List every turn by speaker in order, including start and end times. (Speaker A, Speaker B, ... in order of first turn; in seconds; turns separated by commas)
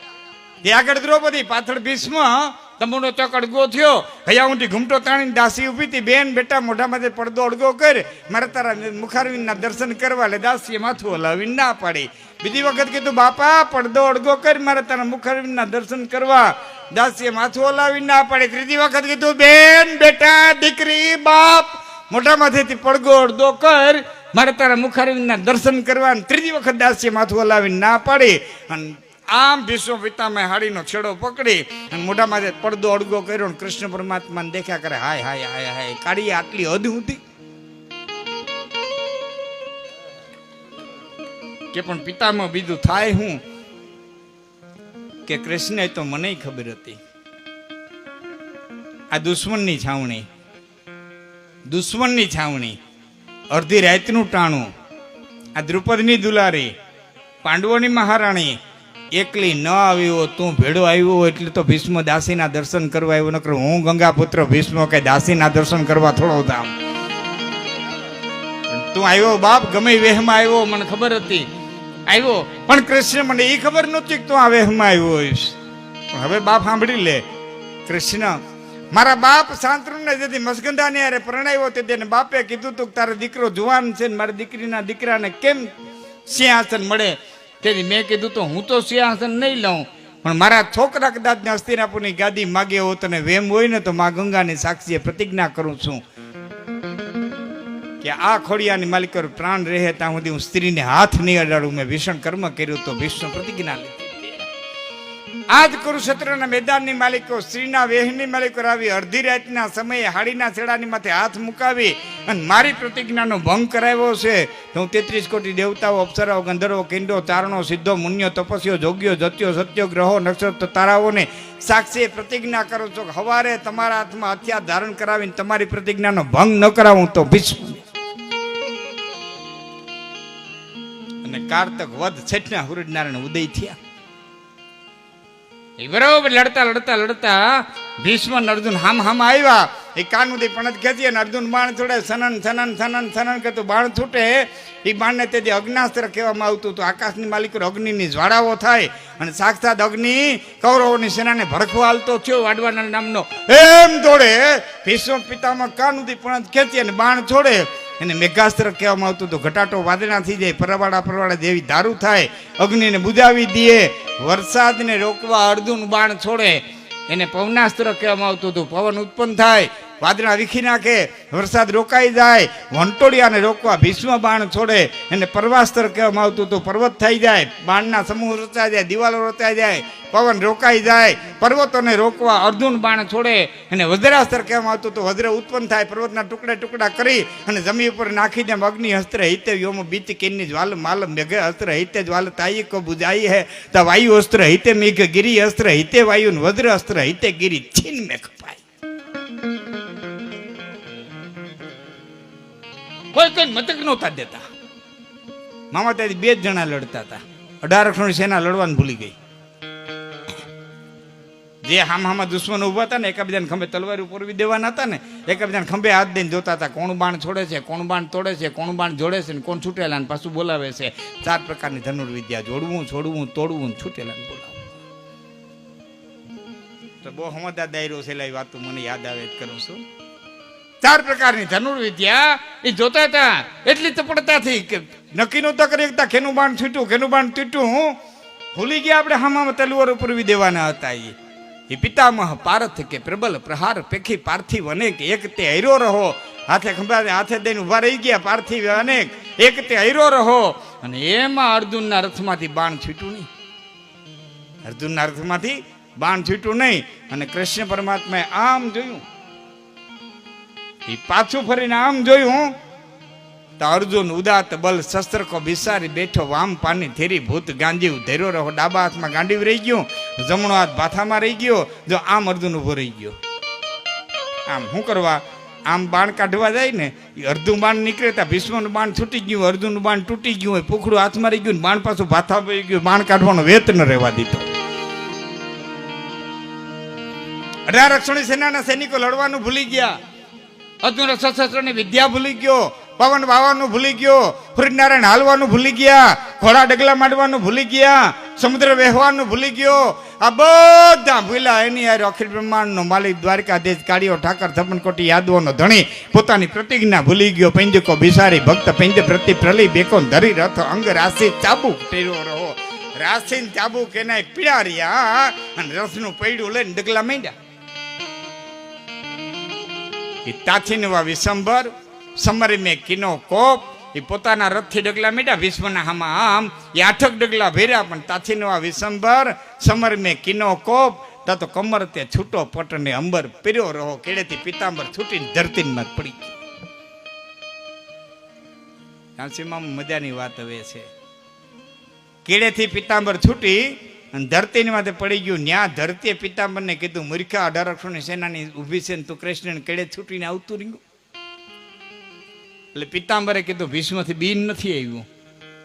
Speaker A: 0.6-37.2, Speaker A: 41.7-43.4, Speaker A: 45.3-47.0, Speaker A: 49.1-50.3, Speaker A: 51.7-52.8, Speaker A: 53.5-54.7, Speaker A: 55.6-56.7, Speaker A: 57.4-58.6, Speaker A: 59.1-66.7, Speaker A: 68.7-71.5, Speaker A: 72.1-75.6, Speaker A: 76.1-77.2, Speaker A: 77.9-78.4, Speaker A: 78.9-85.7, Speaker A: 86.3-96.0, Speaker A: 98.0-104.5, Speaker A: 105.5-127.9, Speaker A: 131.2-133.8, Speaker A: 135.8-198.6, Speaker A: 203.1-204.4, Speaker A: 205.7-209.2, Speaker A: 211.7-224.8, Speaker A: 227.0-229.8, Speaker A: 230.8-238.0, Speaker A: 238.6-241.1, Speaker A: 241.7-253.3, Speaker A: 254.7-259.0, Speaker A: 260.9-262.5, Speaker A: 263.6-273.2, Speaker A: 274.5-284.5, Speaker A: 287.7-290.0, Speaker A: 290.8-317.3, Speaker A: 320.2-336.4, Speaker A: 339.2-340.9, Speaker A: 342.2-350.8, Speaker A: 352.7-355.1